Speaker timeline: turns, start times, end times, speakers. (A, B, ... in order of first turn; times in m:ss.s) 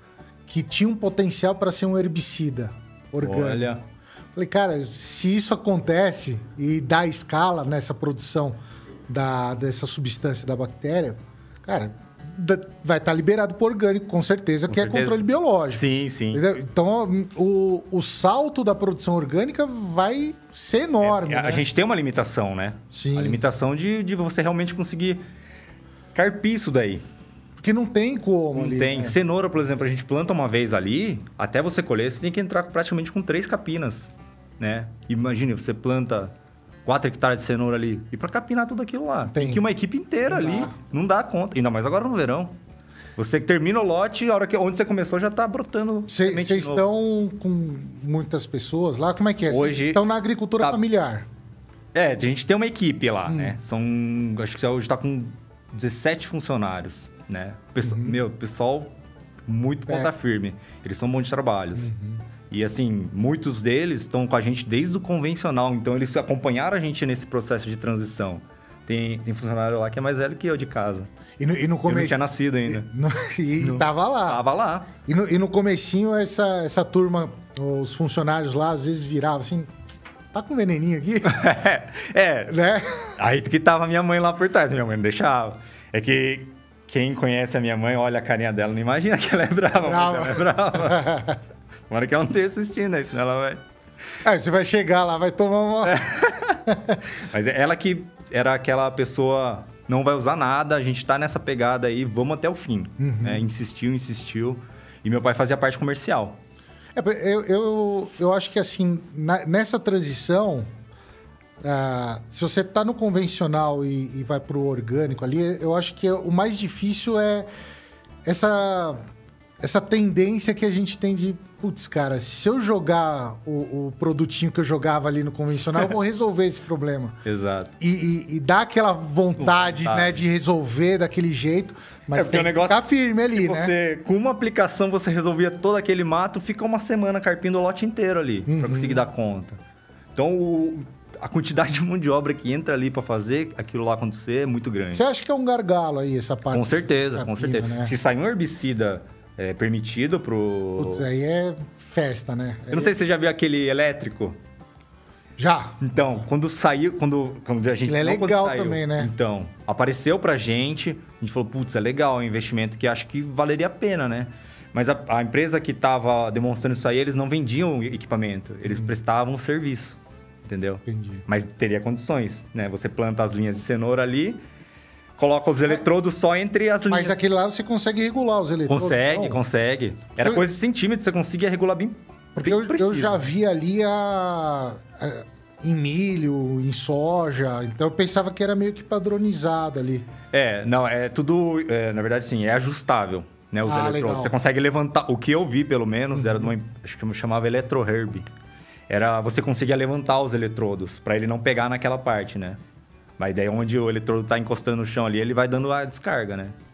0:00.5-0:03.7 A
0:03.2-0:03.8 B
0:04.3-0:08.6 A
0:09.1-0:21.6 A
0:14.7-0:15.2 B
0:15.7-0:16.4 B
0:21.0-0:25.2 B
0:22.9-0:23.4 A
0:26.1-0:27.0 B
0:27.6-0:29.2 A
0:28.5-0:36.3 B
0:36.8-0:42.6 B
0:39.3-0:39.6 A
0:40.3-0:40.7 A
0:43.2-0:46.8 B
0:46.1-0:51.3 A
0:49.5-0:50.0 B
0:51.9-0:58.9 B
0:53.3-0:53.6 A
0:57.8-0:58.2 A
0:59.5-1:01.9 B
0:59.9-1:00.1 A
1:01.8-1:02.2 A
1:02.5-1:11.1 B
1:11.4-1:14.4 A
1:11.8-1:12.9 B
1:13.6-1:14.9 B
1:15.0-1:19.7 A
1:20.3-1:21.5 A
1:21.2-1:22.6 B
1:22.5-1:23.1 A
1:23.2-1:31.2 B
1:29.8-1:31.4 A
1:31.9-1:33.6 B
1:34.2-1:36.0 A
1:35.8-1:46.4 B
1:36.7-1:37.0 A
1:43.0-1:43.4 A
1:46.9-1:50.7 A
1:51.6-1:57.5 A
1:58.2-1:59.0 A
1:59.6-2:07.2 A
2:07.2-2:07.7 B
2:07.8-2:13.7 A
2:09.4-2:10.2 B
2:12.1-2:12.8 B
2:13.3-2:19.6 B
2:18.5-2:19.0 A
2:20.2-2:25.0 B
2:24.9-2:27.9 A
2:26.5-2:31.0 B
2:30.8-2:32.9 A
2:32.7-2:34.4 B
2:35.4-2:35.8 A
2:35.8-2:54.4 B
2:37.8-2:39.1 A
2:50.8-2:51.2 A
2:55.2-2:57.2 B
2:56.9-2:59.4 A
2:58.7-3:03.2 B
3:02.3-3:10.1 A
3:10.3-3:18.2 B
3:13.6-3:14.3 A
3:16.1-3:16.5 A
3:18.9-3:22.6 B
3:23.2-3:26.5 B